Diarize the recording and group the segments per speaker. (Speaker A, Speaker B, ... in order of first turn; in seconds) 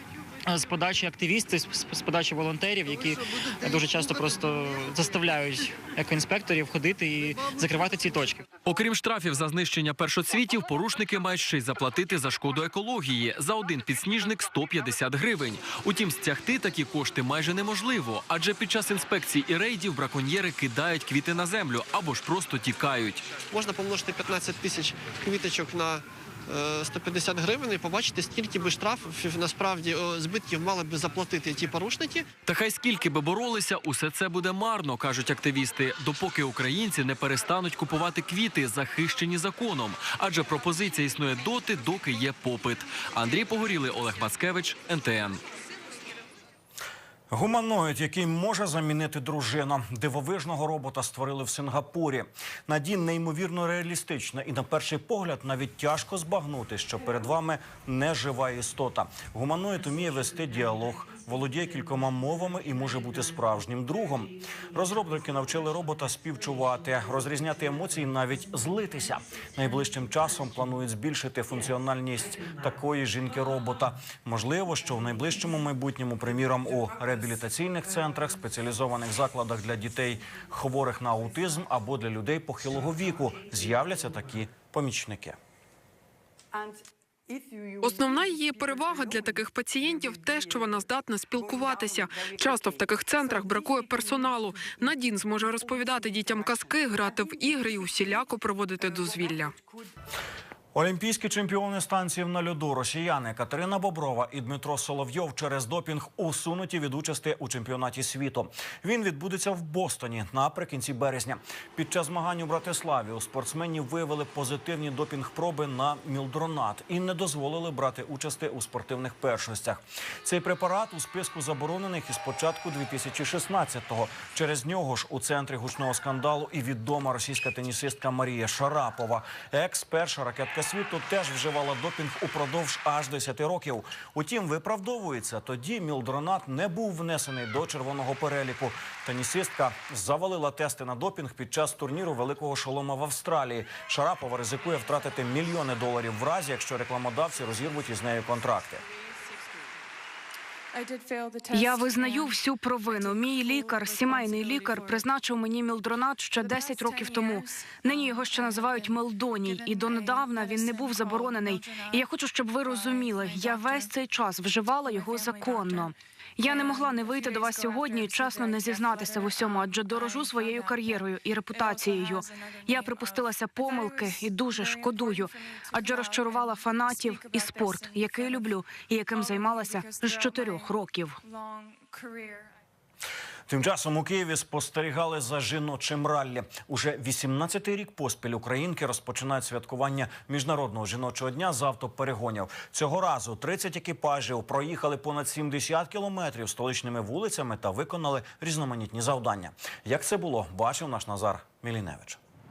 Speaker A: 0.5-8.5
Speaker B: 10.2-12.9, 13.6-17.1, 17.7-19.1, 19.7-21.1, 21.7-23.2, 32.5-45.4
Speaker C: 23.4-32.3
Speaker D: 47.3-85.4, 100.7-148.8, 183.5-202.2
Speaker E: 87.8-99.5
Speaker F: 151.5-181.2